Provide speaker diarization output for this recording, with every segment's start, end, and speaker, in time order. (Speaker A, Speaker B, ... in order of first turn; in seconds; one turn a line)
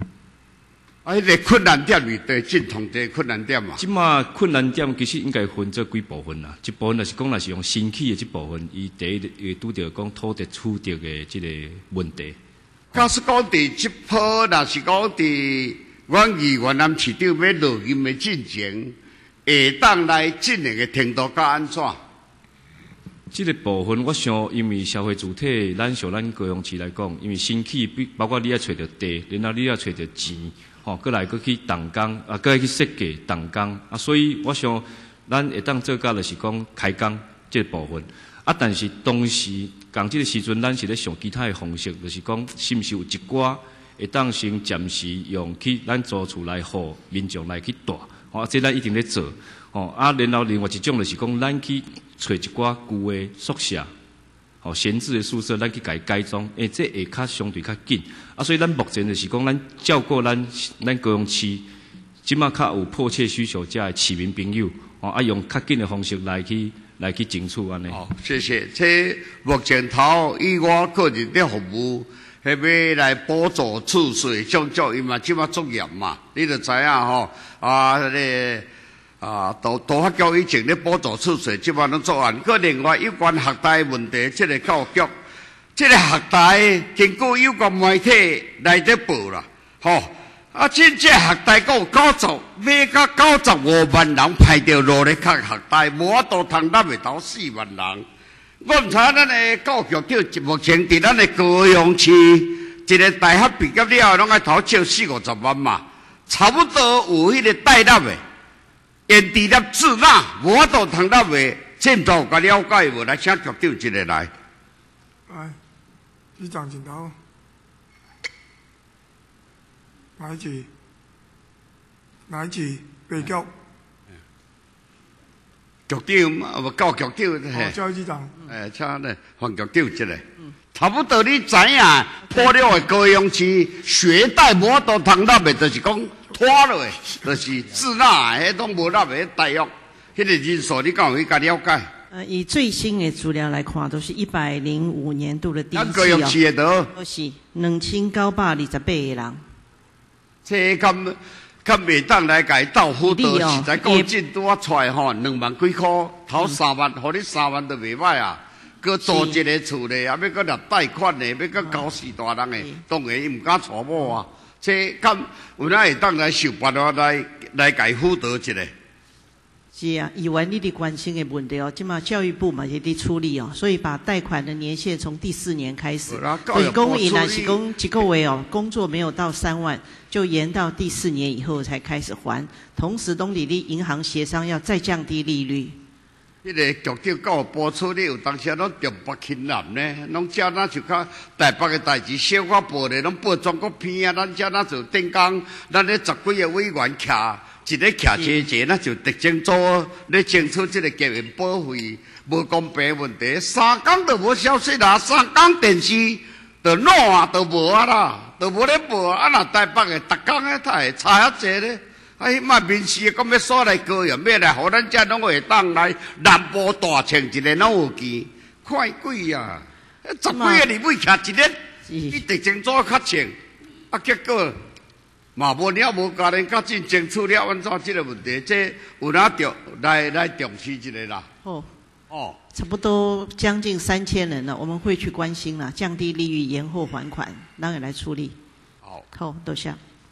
Speaker A: 1.1-3.8
Speaker B: 3.8-12.4
Speaker A: 12.9-18.9
Speaker A: 19.5-22.0
Speaker B: 23.3-53.9
Speaker B: 54.6-61.7
Speaker B: 62.2-68.0
Speaker A: 67.9-78.7
Speaker A: 79.2-85.1
Speaker A: 85.8-98.0
Speaker A: 98.6-108.2
Speaker A: 109.1-114.3
Speaker C: 115.3-115.6
Speaker C: 116.4-117.2
Speaker C: 120.2-120.7
Speaker C: 122.3-123.5
Speaker A: 125.9-127.8
Speaker C: 127.5-128.4
Speaker A: 128.5-141.9
Speaker D: 142.1-146.4
Speaker A: 145.7-146.9
Speaker D: 146.9-149.4
Speaker A: 150.5-168.7
Speaker D: 153.0-154.1
Speaker D: 159.0-159.4
Speaker D: 169.7-185.8
Speaker A: 176.1-177.6
Speaker A: 186.4-221.6
Speaker D: 220.3-220.7
Speaker D: 221.9-222.2
Speaker A: 222.1-223.3
Speaker A: 223.9-224.6
Speaker A: 225.4-231.3
Speaker D: 231.4-231.7
Speaker A: 232.1-232.4
Speaker D: 232.5-238.4
Speaker D: 239.1-239.8